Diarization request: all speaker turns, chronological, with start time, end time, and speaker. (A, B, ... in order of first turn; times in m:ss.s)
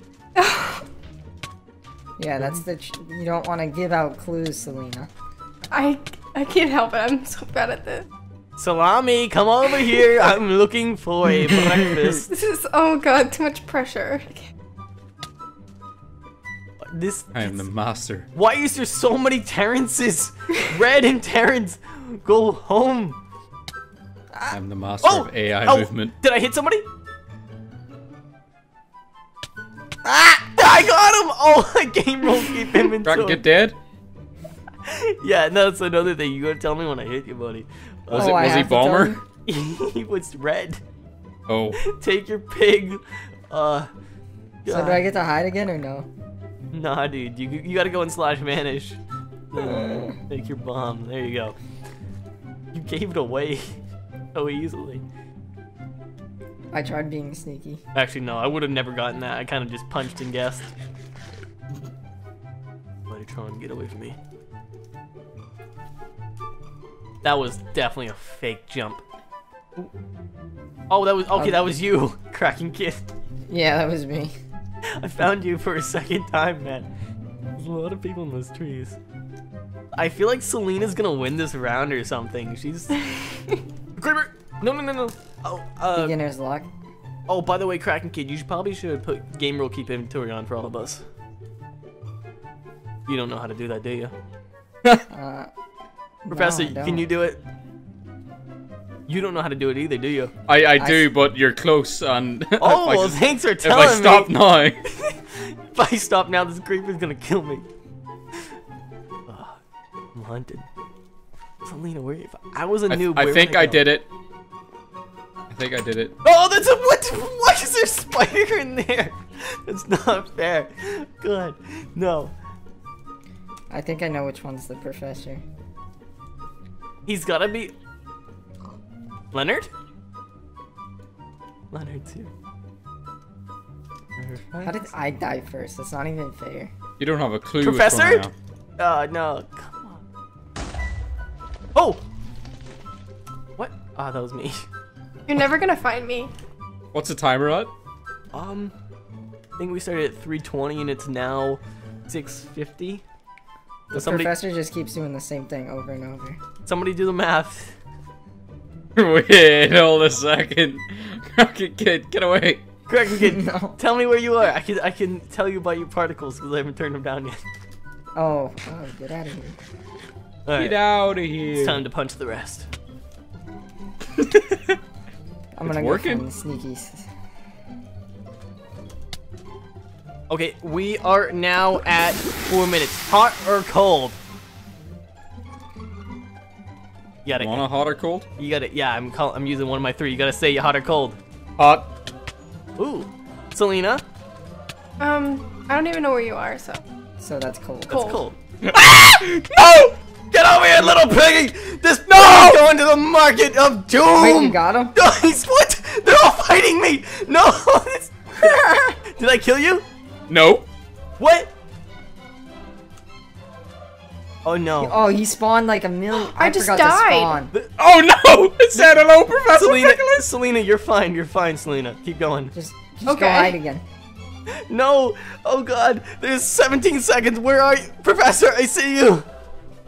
0:00.4-0:00.8 A
0:02.2-0:05.1 B
0:05.7-0:08.1 A
0:08.6-0:12.3 C
0:12.3-0:14.5 A
0:16.8-0:17.6 C
0:17.3-0:18.3 D
0:18.3-0:23.2 C
0:24.3-0:24.6 B
0:24.5-0:26.1 D
0:25.0-0:26.9 C
0:30.0-0:30.5 B
0:30.5-0:33.4 C
0:33.0-0:33.8 D
0:34.8-0:38.7 C
0:38.1-0:39.2 D
0:38.1-0:39.2 B
0:39.4-0:40.8 C
0:41.5-0:41.8 D
0:41.8-0:43.9 C
0:44.6-0:45.0 C
0:44.7-0:46.1 B
0:46.7-0:49.0 C
0:49.5-0:51.6 C
0:49.6-0:50.2 B
0:52.7-0:53.8 C
0:54.3-0:55.0 C
0:56.7-0:57.8 B
0:57.9-1:00.7 C
1:03.1-1:04.2 C
1:07.2-1:09.0 C
1:10.9-1:13.0 C
1:13.5-1:14.4 B
1:14.9-1:16.9 C
1:17.6-1:19.0 C
1:19.9-1:23.0 C
1:23.0-1:23.6 A
1:24.0-1:26.2 C
1:25.9-1:26.7 B
1:27.3-1:31.0 C
1:33.1-1:34.1 C
1:35.1-1:35.5 B
1:36.2-1:37.0 B
1:36.3-1:37.4 C
1:39.1-1:40.3 C
1:40.5-1:44.8 D
1:40.8-1:41.1 B
1:42.6-1:47.6 C
1:49.3-1:49.6 C
1:50.1-1:50.7 C
1:51.6-1:53.9 C
1:52.9-1:54.1 D
1:55.5-1:56.2 D
1:56.2-2:02.3 C
2:03.7-2:05.4 B
2:07.0-2:07.7 C
2:09.3-2:09.7 C
2:11.7-2:12.3 C
2:14.2-2:14.8 C
2:14.6-2:16.7 B
2:17.0-2:18.3 D
2:17.6-2:20.0 C
2:21.7-2:22.0 C
2:23.6-2:24.6 C
2:25.3-2:26.3 A
2:26.9-2:27.7 D
2:28.3-2:28.7 C
2:29.6-2:33.0 C
2:33.9-2:34.3 C
2:33.9-2:36.4 B
2:36.6-2:37.7 C
2:39.0-2:42.6 D
2:42.9-2:47.4 C
2:43.2-2:43.8 B
2:48.1-2:49.6 B
2:50.4-2:50.8 C
2:50.6-2:51.8 D
2:51.5-2:52.7 C
2:54.2-2:54.8 D
2:55.5-2:57.0 B
2:55.6-2:56.2 D
3:00.3-3:04.2 C
3:07.2-3:07.6 C
3:07.4-3:08.3 D
3:08.4-3:11.2 C
3:11.6-3:11.9 D
3:12.8-3:14.0 C
3:15.0-3:16.8 A
3:17.2-3:18.0 B
3:17.9-3:18.4 C
3:17.9-3:18.2 A
3:18.6-3:20.0 D
3:20.3-3:29.8 C
3:22.1-3:22.7 D
3:24.2-3:24.9 B
3:28.4-3:29.0 B
3:30.3-3:30.7 D
3:31.2-3:31.5 C
3:34.4-3:35.0 C
3:34.8-3:37.5 B
3:36.2-3:37.3 A
3:37.7-3:40.3 D
3:39.5-3:42.5 C
3:42.5-3:43.8 B
3:43.0-3:43.6 A
3:44.5-3:49.2 C